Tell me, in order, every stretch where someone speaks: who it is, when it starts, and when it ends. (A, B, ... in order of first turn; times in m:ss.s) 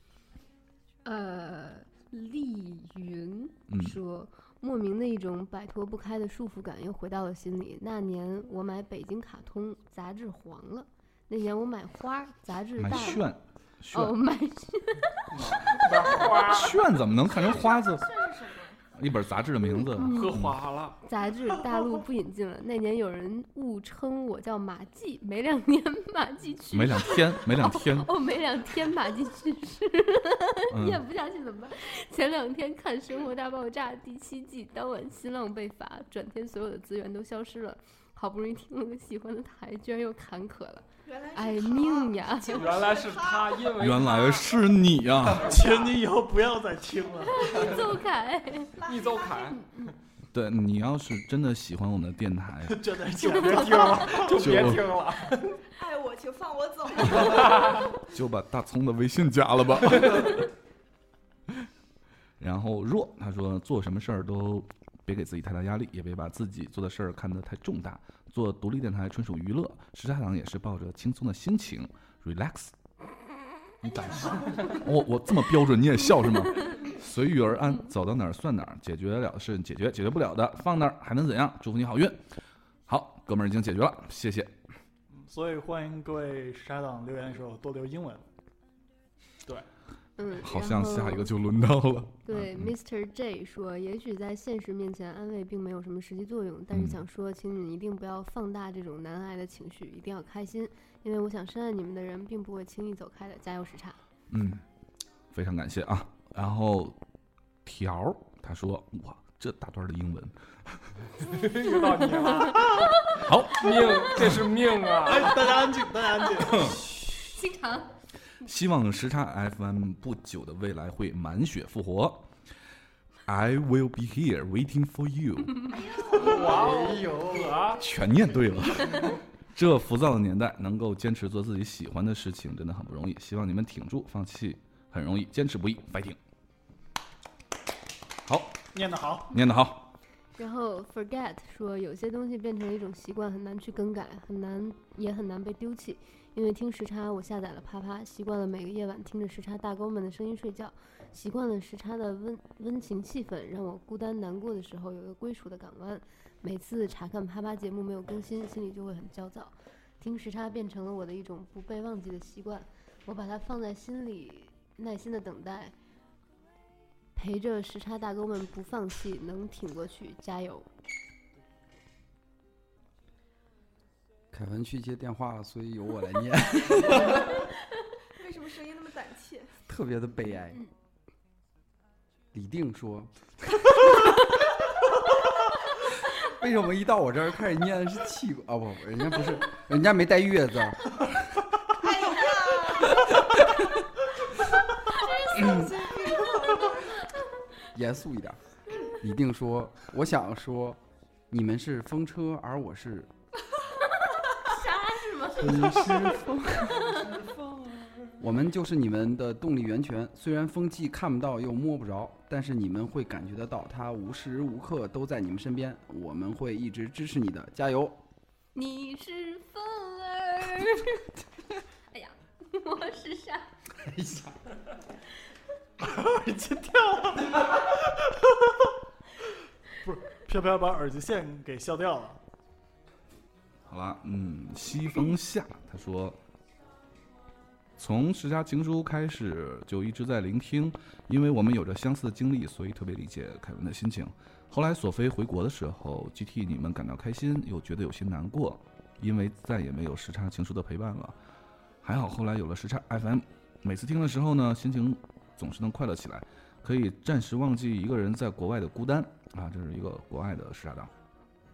0:01.0-0:13.2 A
0:03.7-0:04.0 B
0:12.8-0:14.2 B
0:13.9-0:15.2 A
0:15.4-0:16.8 C
0:16.5-0:18.1 B
0:17.4-0:18.8 D
0:19.0-0:20.6 B
0:19.9-0:20.5 A
0:20.0-0:21.0 C
0:21.0-0:42.7 A
0:26.7-0:28.1 B
0:30.7-0:31.0 B
0:41.1-0:43.8 D
0:42.5-0:44.6 C
0:43.8-0:45.5 B
0:45.2-0:46.0 C
0:45.4-0:47.8 E
0:47.4-0:48.8 A
0:48.8-0:49.9 C
0:48.8-0:49.4 D
0:50.3-0:52.8 B
0:52.7-0:54.5 E
0:53.2-0:55.6 C
0:54.4-0:54.8 B
0:55.7-0:57.8 D
0:57.5-0:57.8 C
0:58.1-1:00.5 B
1:02.4-1:12.7 B
1:13.8-1:22.2 B
1:22.9-1:24.5 B
1:25.3-1:28.2 E
1:30.2-1:31.3 A
1:30.4-1:32.7 B
1:32.3-1:44.0 A
1:36.7-1:37.0 B
1:44.3-1:44.6 B
1:45.3-1:47.0 B
1:47.6-1:50.8 B
1:51.2-1:55.6 C
1:53.2-1:54.4 B
1:55.0-1:56.9 E
1:57.1-1:57.9 A
1:58.4-2:02.3 B
2:03.3-2:05.7 B
2:05.8-2:06.6 D
2:06.2-2:07.6 F
2:06.2-2:07.8 C
2:07.7-2:16.2 B
2:18.3-2:18.6 B
2:18.7-2:19.3 E
2:19.3-2:19.9 B
2:20.4-2:45.7 A
2:47.2-2:50.7 A
2:54.3-2:57.4 F
2:58.2-2:59.5 D
2:59.7-3:00.6 F
3:02.3-3:03.1 F
3:06.2-3:11.1 F
3:11.8-3:13.1 D
3:14.9-3:17.1 D
3:17.7-3:23.1 F
3:24.6-3:25.2 A
3:25.3-3:27.0 F
3:28.2-3:38.0 F
3:38.6-3:41.1 A
3:41.9-3:43.5 A
3:43.8-3:44.4 F
3:45.8-3:48.3 E
3:49.8-3:52.2 E
3:53.7-3:56.2 B
3:57.8-4:11.1 B
4:11.8-4:20.9 B